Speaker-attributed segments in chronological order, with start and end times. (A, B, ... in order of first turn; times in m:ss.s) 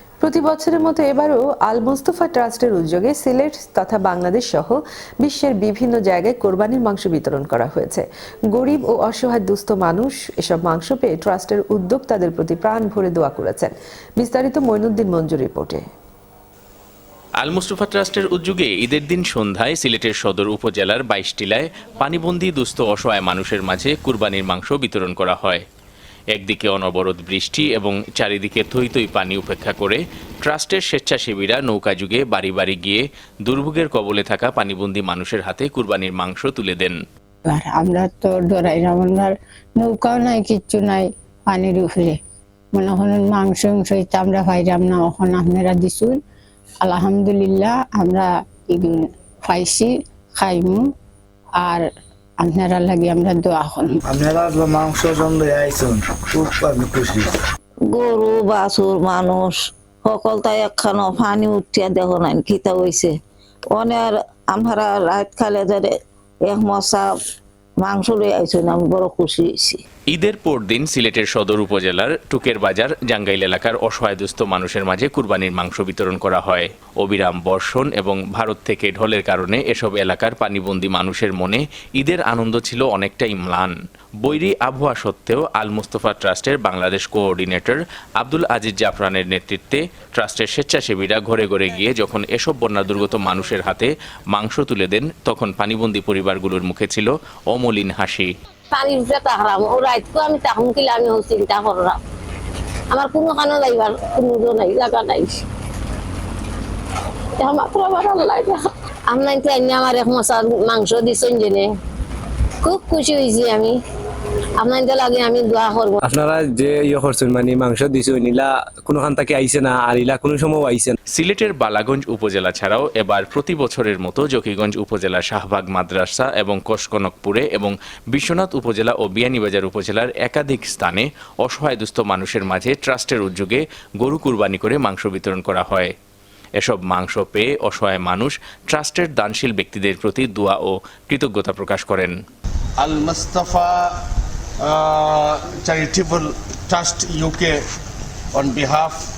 0:00.2-0:15.8 A
0:17.4-0:25.6 B
0:26.3-0:37.0 B
0:37.4-0:42.2 C
0:42.7-0:46.2 C
0:46.8-0:50.8 C
0:51.6-0:51.8 C
0:52.4-0:54.0 C
0:54.2-0:57.3 D
0:57.9-1:03.1 E
1:03.7-1:05.9 E
1:06.4-1:07.1 E
1:07.8-1:09.8 E
1:10.1-1:23.7 B
1:24.2-1:38.3 B
1:38.7-1:42.0 F
1:42.9-1:45.4 F
1:47.4-1:51.7 F
1:52.6-1:53.8 F
1:54.6-1:56.0 F
1:56.0-2:01.0 G
2:01.1-2:15.9 B
2:16.6-2:22.1 B
2:22.8-2:23.9 H
2:24.6-2:27.6 H
2:28.3-2:29.0 H